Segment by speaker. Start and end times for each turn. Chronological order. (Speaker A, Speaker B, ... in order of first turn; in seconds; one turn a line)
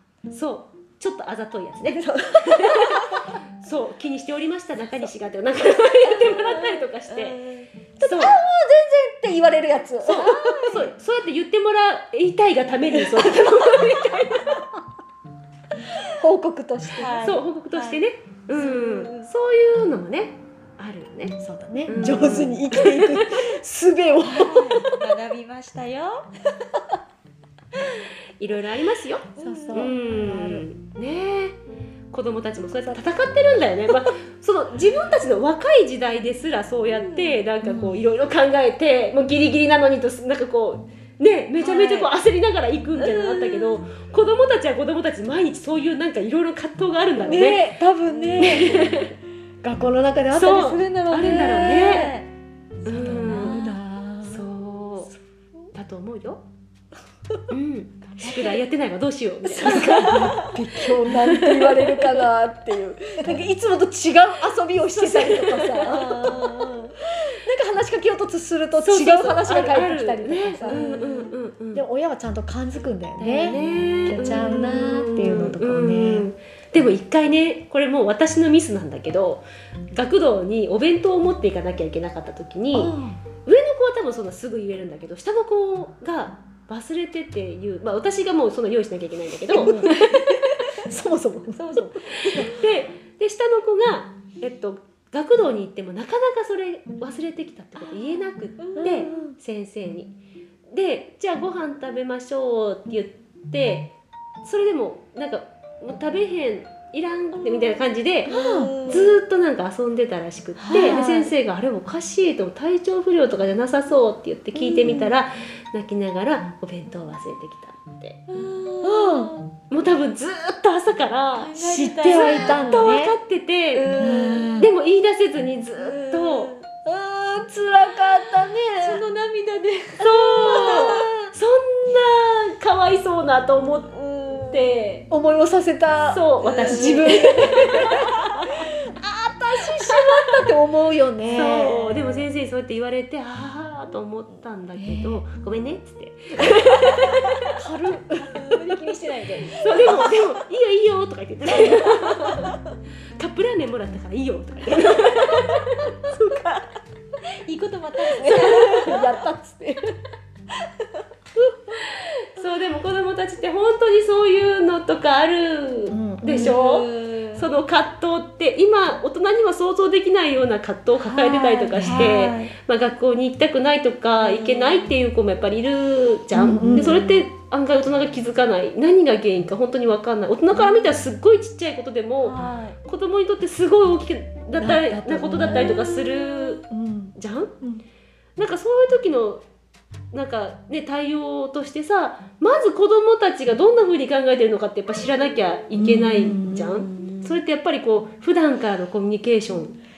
Speaker A: 0.3-7.4
Speaker B: 1.9-3.1
Speaker C: 6.2-7.7
Speaker B: 8.0-10.9
Speaker A: 8.0-8.4
Speaker A: 10.1-14.7
Speaker C: 10.1-10.9
Speaker B: 12.9-13.4
Speaker B: 16.1-17.2
Speaker C: 16.9-18.0
Speaker A: 17.2-23.2
Speaker C: 18.5-19.3
Speaker B: 21.4-25.0
Speaker C: 24.2-26.3
Speaker A: 28.4-31.6
Speaker C: 29.4-29.9
Speaker B: 29.4-30.6
Speaker A: 32.1-47.7
Speaker C: 37.0-37.4
Speaker B: 37.6-38.0
Speaker C: 41.6-42.1
Speaker C: 43.0-43.8
Speaker B: 47.2-52.1
Speaker C: 48.1-48.6
Speaker A: 48.4-49.1
Speaker A: 50.3-52.1
Speaker C: 51.2-52.3
Speaker B: 52.8-54.5
Speaker A: 52.8-53.6
Speaker C: 53.1-53.8
Speaker A: 54.2-55.1
Speaker A: 55.7-56.4
Speaker A: 57.5-60.4
Speaker C: 58.1-58.6
Speaker B: 59.4-70.9
Speaker C: 59.7-60.6
Speaker A: 61.1-61.8
Speaker A: 64.9-66.1
Speaker C: 65.9-66.9
Speaker A: 68.8-71.8
Speaker C: 70.6-71.3
Speaker B: 71.7-76.3
Speaker A: 73.2-90.3
Speaker C: 73.4-74.4
Speaker B: 82.7-83.2
Speaker B: 89.6-89.9
Speaker B: 90.7-91.6
Speaker C: 91.5-92.5
Speaker A: 92.2-100.2
Speaker C: 98.6-99.2
Speaker B: 98.8-99.3
Speaker A: 100.7-103.9
Speaker A: 104.4-108.3
Speaker C: 107.4-109.2
Speaker B: 108.3-108.7
Speaker A: 108.8-118.2
Speaker C: 110.6-111.2
Speaker B: 110.7-111.3
Speaker C: 114.5-115.1
Speaker C: 118.3-119.5
Speaker B: 118.8-119.3
Speaker A: 119.7-121.5
Speaker C: 121.3-123.0
Speaker B: 121.6-123.2
Speaker A: 122.0-123.9
Speaker C: 123.7-124.6
Speaker B: 124.0-124.7
Speaker A: 124.5-126.5
Speaker C: 125.7-126.6
Speaker B: 126.8-129.0
Speaker C: 128.8-131.1
Speaker A: 130.0-133.9
Speaker B: 130.1-131.1
Speaker C: 133.9-134.7
Speaker A: 134.5-135.1
Speaker B: 135.1-141.7
Speaker A: 136.1-138.1
Speaker C: 136.4-138.6
Speaker C: 141.3-142.2
Speaker A: 141.3-147.3
Speaker B: 144.8-145.2
Speaker B: 147.6-150.1
Speaker C: 148.3-150.2
Speaker A: 149.6-152.6
Speaker C: 151.7-152.5
Speaker A: 153.2-156.4
Speaker C: 157.4-159.1
Speaker B: 158.2-159.9
Speaker A: 161.7-186.6
Speaker B: 165.9-166.6
Speaker C: 166.3-167.5
Speaker C: 171.0-172.5
Speaker B: 171.8-172.1
Speaker C: 174.2-174.9
Speaker B: 176.3-177.1
Speaker C: 176.6-177.0
Speaker C: 182.2-182.8
Speaker B: 184.6-186.2
Speaker C: 185.4-185.9
Speaker B: 186.7-187.8
Speaker A: 187.2-187.5
Speaker A: 188.4-189.4
Speaker A: 190.1-199.8
Speaker B: 195.7-196.8
Speaker C: 196.2-197.4